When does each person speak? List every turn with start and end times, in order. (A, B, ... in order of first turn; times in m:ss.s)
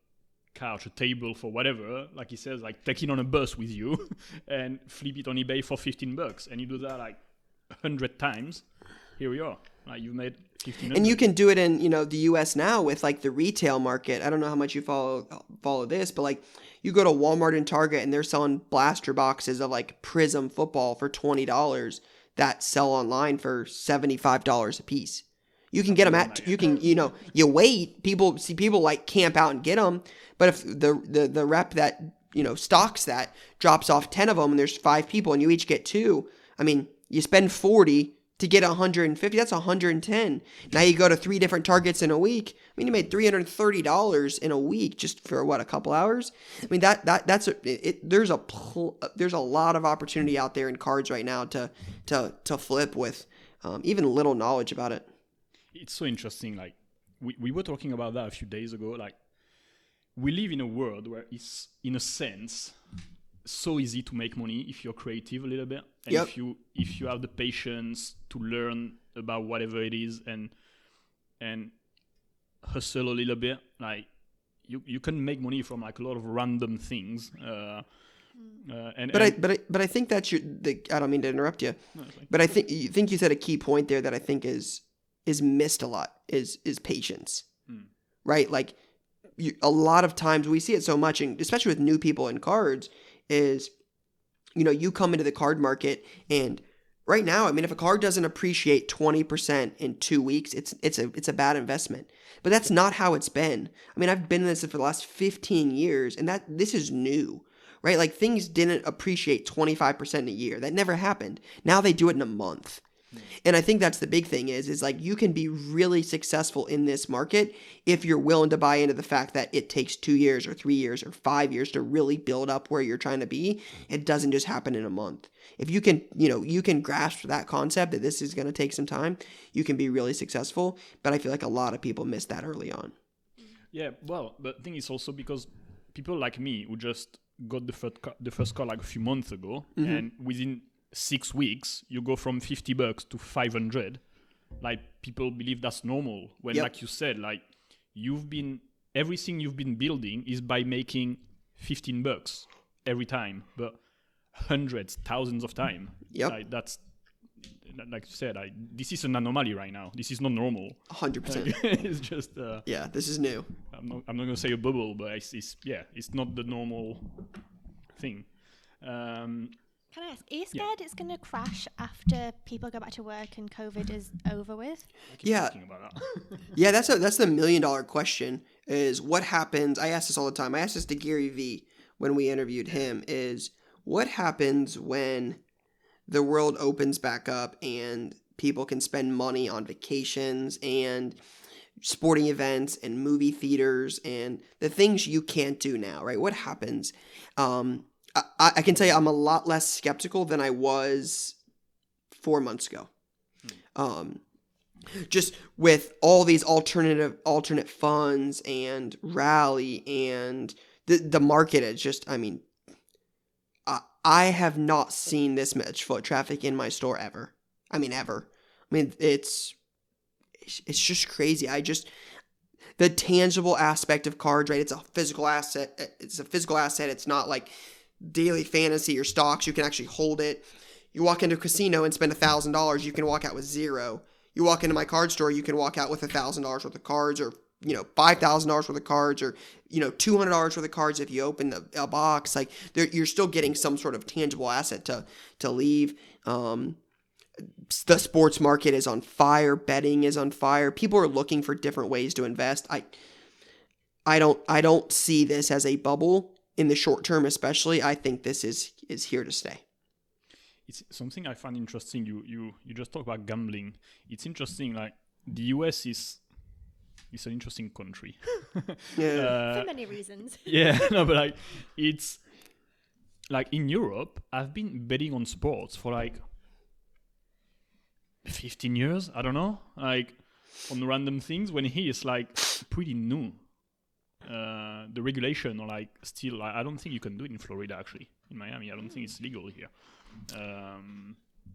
0:00.4-0:11.2 A
0:10.9-0:55.1 B
0:25.9-0:27.3 A
0:55.7-1:02.8 A
1:03.4-1:19.4 A
1:18.3-1:18.6 C
1:19.1-1:27.5 B
1:21.9-1:22.3 A
1:28.2-1:28.8 B
1:29.4-1:33.7 B
1:34.5-1:52.8 B
1:53.4-2:12.9 B
2:13.7-2:42.7 A
2:19.8-2:20.0 B
2:40.9-2:41.6 B
2:42.6-2:43.5 B
2:43.7-2:49.7 A
2:49.9-2:54.9 C
2:55.1-2:56.5 A
2:55.2-2:55.6 B
2:56.5-3:05.4 B
3:06.1-3:11.2 B
3:11.8-3:21.4 B
3:22.1-3:22.9 B
3:23.7-3:24.2 B
3:24.9-3:32.5 B
3:33.6-3:39.6 B
3:40.4-3:41.9 B
3:42.8-4:06.8 B
4:07.4-4:12.9 B
4:14.0-4:19.6 B
4:20.6-4:29.7 A
4:29.0-4:29.4 B
4:29.4-4:30.6 C
4:30.4-4:32.7 A
4:33.3-4:36.2 A
4:38.2-4:43.6 A
4:44.2-4:51.2 A